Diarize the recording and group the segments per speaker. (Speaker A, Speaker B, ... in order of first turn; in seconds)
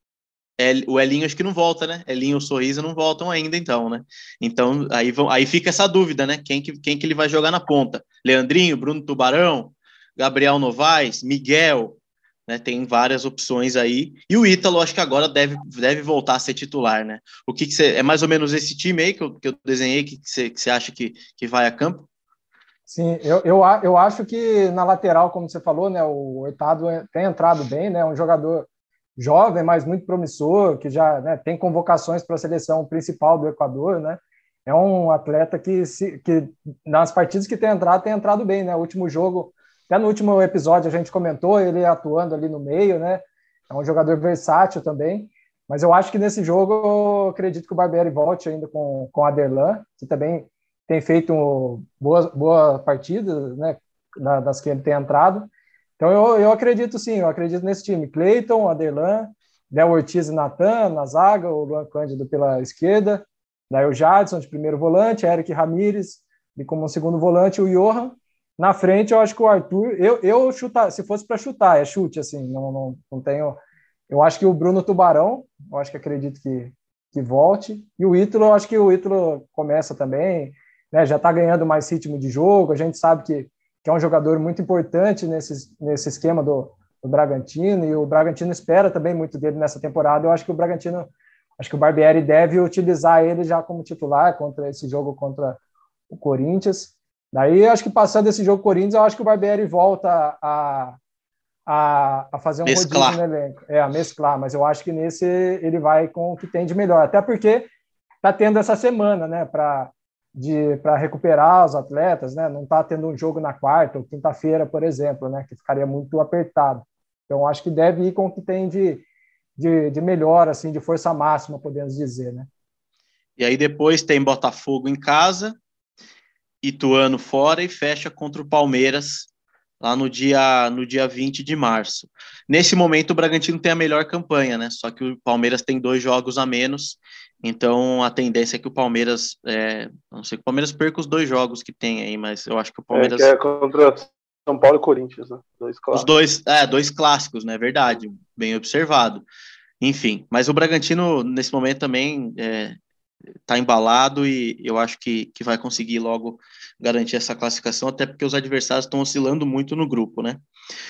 Speaker A: 0.6-22.1, 102.7-103.2, 123.4-125.6, 126.6-143.3, 145.9-149.2, 149.8-152.8, 153.5-160.4
Speaker B: 22.9-55.5, 56.0-73.6, 74.1-95.6, 96.1-101.0, 101.7-107.7, 108.2-119.0, 119.6-122.5
Speaker C: 142.9-146.1